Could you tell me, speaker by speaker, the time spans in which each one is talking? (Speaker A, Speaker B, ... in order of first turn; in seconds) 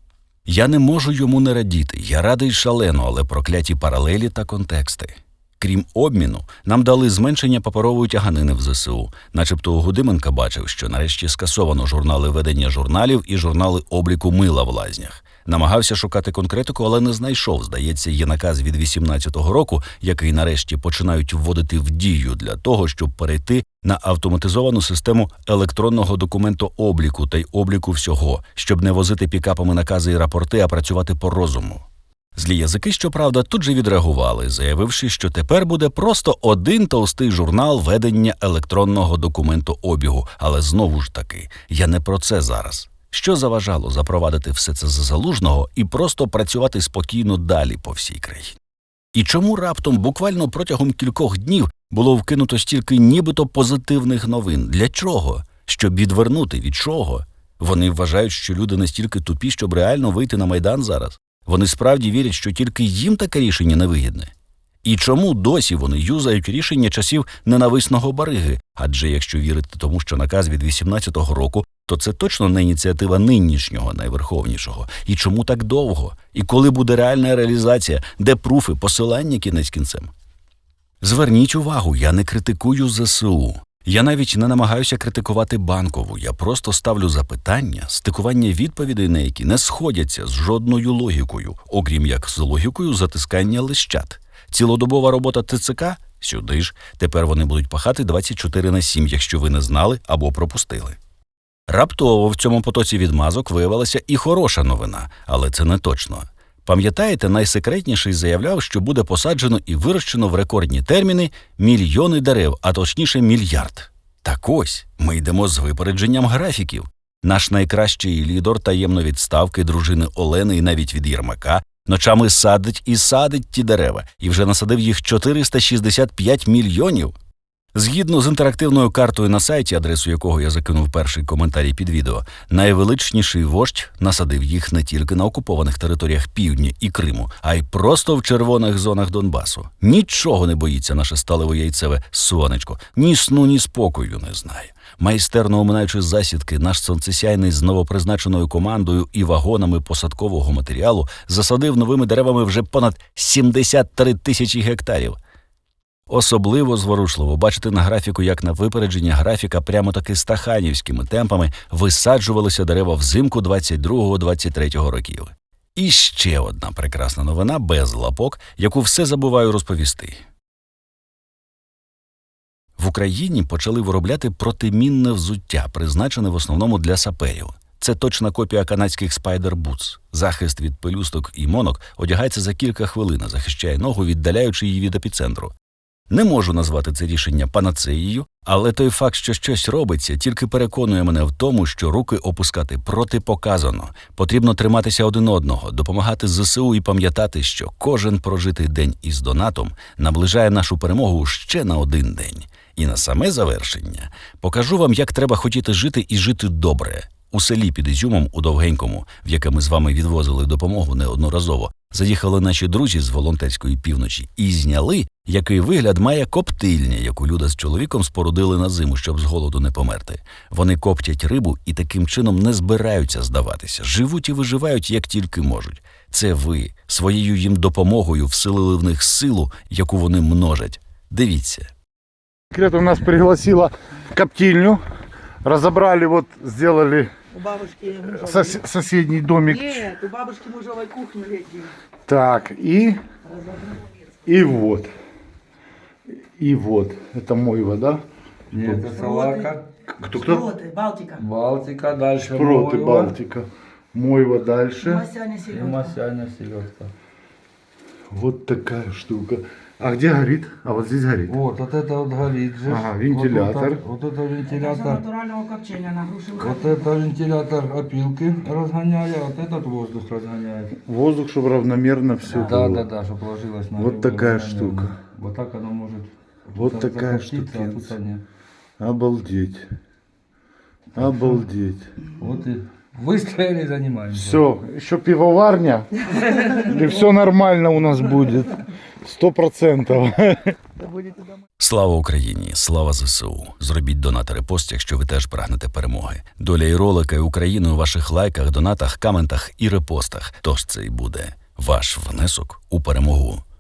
Speaker A: 0.5-48.6, 49.1-64.3, 64.8-80.1, 81.0-101.0, 101.7-127.1, 127.7-155.2, 156.1-170.2, 172.8-185.5, 186.1-231.7, 291.6-303.4
Speaker B: 232.5-234.8, 235.4-237.1, 238.2-239.9, 242.1-243.0, 244.2-244.9, 246.4-248.0, 248.6-248.9, 250.0-250.5, 252.3-255.1, 258.1-261.4, 262.6-263.8, 270.8-272.9, 273.8-274.9, 276.5-277.9, 278.8-279.6, 280.9-281.9, 284.1-290.6
Speaker C: 237.3-238.6, 239.5-241.7, 243.4-243.8, 249.0-249.4, 250.2-251.2, 254.9-255.8, 264.6-266.6, 290.9-291.4
Speaker D: 248.5-249.7, 251.2-253.1, 255.5-256.9, 261.2-265.0, 266.4-270.8, 272.3-278.2, 281.0-281.4, 282.2-284.4, 286.2-286.5